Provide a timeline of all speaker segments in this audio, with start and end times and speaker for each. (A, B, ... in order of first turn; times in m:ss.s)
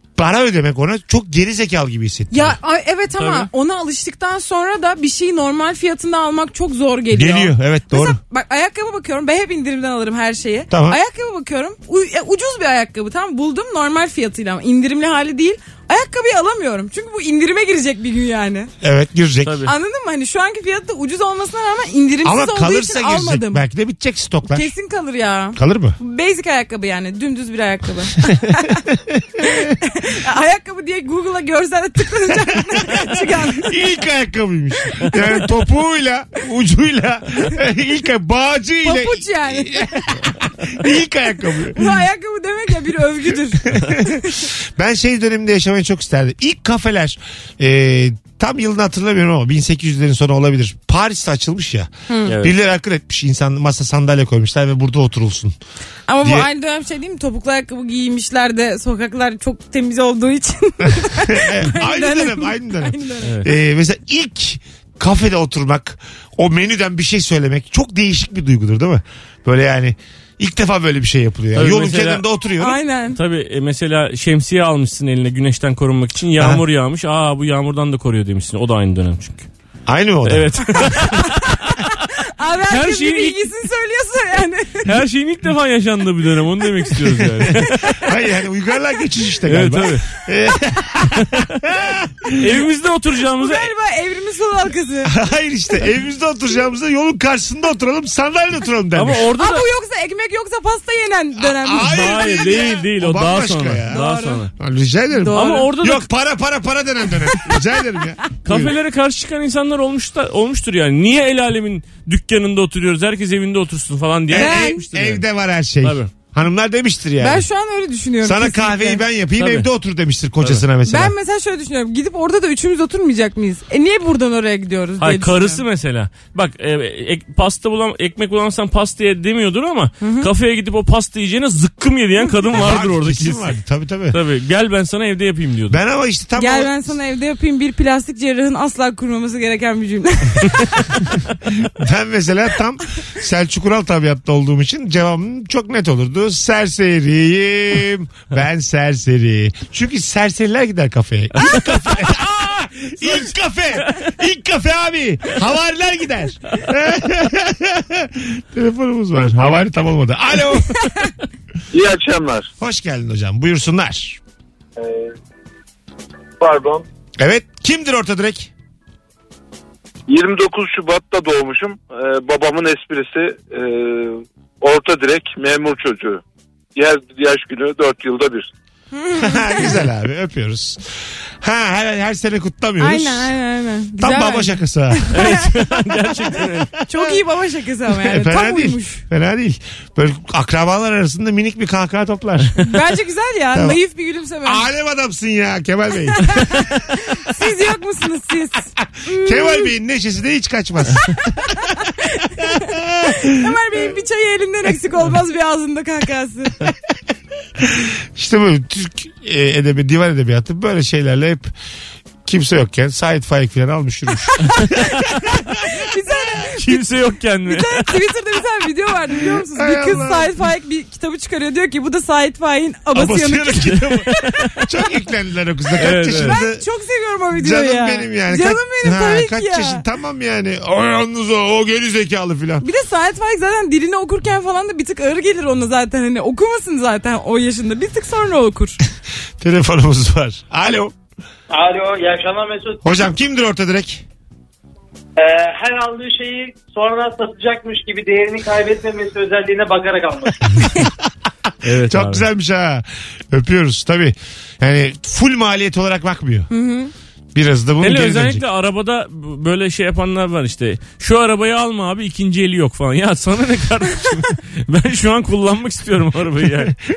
0:00.2-0:02.6 A
0:02.3-0:18.7 B
0:03.2-0:03.5 C
0:07.1-0:08.2 A
0:10.7-0:11.0 A
0:18.8-0:19.6 A
0:19.4-0:19.7 C
0:19.6-0:23.6 B
0:22.2-0:24.7 A
0:24.5-0:28.8 B
0:25.6-0:26.0 A
0:28.3-0:29.8 A
0:29.8-0:33.7 B
0:32.7-0:42.0 A
0:38.8-0:40.2 B
0:41.7-0:44.4 B
0:43.6-0:55.6 A
0:52.1-0:52.3 B
0:52.2-0:52.5 C
0:56.1-1:03.3 B
0:56.2-0:56.5 A
1:01.0-1:12.8 A
1:03.2-1:03.5 C
1:11.5-1:12.2 C
1:12.6-1:13.2 B
1:13.1-1:19.5 C
1:19.9-1:21.0 A
1:20.2-1:21.5 C
1:21.2-1:24.9 B
1:22.7-1:23.4 C
1:24.8-1:28.0 C
1:27.3-1:32.6 A
1:29.4-1:30.0 C
1:32.4-1:33.7 C
1:33.4-1:35.1 B
1:35.0-1:39.2 A
1:38.9-1:39.6 C
1:39.4-1:42.2 B
1:41.4-1:44.0 A
1:41.8-1:44.5 C
1:43.9-1:44.4 B
1:44.5-1:48.7 A
1:45.2-1:45.7 B
1:45.3-1:46.0 C
1:47.3-1:47.6 B
1:48.4-1:55.2 C
1:54.3-1:57.4 A
1:54.3-1:54.8 B
1:55.8-1:56.1 C
1:57.2-1:59.0 B
1:58.2-2:01.1 A
1:59.4-1:59.7 C
2:00.8-2:05.6 B
2:05.0-2:13.5 C
2:10.0-2:10.3 B
2:12.5-2:14.2 A
2:14.1-2:15.8 C
2:15.7-2:16.9 A
2:16.4-2:20.9 B
2:21.6-2:41.0 A
2:31.4-2:32.1 C
2:33.0-2:33.3 C
2:41.7-2:42.5 D
2:42.6-2:44.2 A
2:44.8-2:45.1 D
2:46.4-2:46.8 D
2:47.2-2:48.5 A
2:50.1-2:56.2 D
2:56.8-2:58.5 D
2:58.9-2:59.8 B
2:59.1-3:00.8 A
3:01.4-3:03.3 A
3:02.8-3:05.5 B
3:04.0-3:06.4 A
3:05.1-3:06.7 C
3:06.8-3:09.0 B
3:07.9-3:12.6 A
3:12.6-3:14.6 B
3:13.5-3:13.8 A
3:14.4-3:16.7 A
3:16.1-3:19.7 B
3:19.0-3:21.3 A
3:21.2-3:26.6 B
3:22.4-3:23.4 A
3:27.6-3:31.5 A
3:32.2-3:35.5 A
3:34.4-3:36.8 B
3:36.6-3:38.0 C
3:37.4-3:43.8 B
3:39.3-3:40.4 A
3:42.9-3:46.6 A
3:44.1-3:44.6 C
3:45.8-3:46.4 C
3:46.2-3:49.8 B
3:47.3-3:52.6 A
3:52.6-3:58.8 B
3:59.4-4:00.9 A
4:01.5-4:03.0 E
4:02.8-4:04.0 A
4:05.2-4:10.4 E
4:11.6-4:12.2 C
4:11.9-4:16.5 A
4:16.5-4:16.9 B
4:17.3-4:18.4 A
4:17.8-4:26.7 C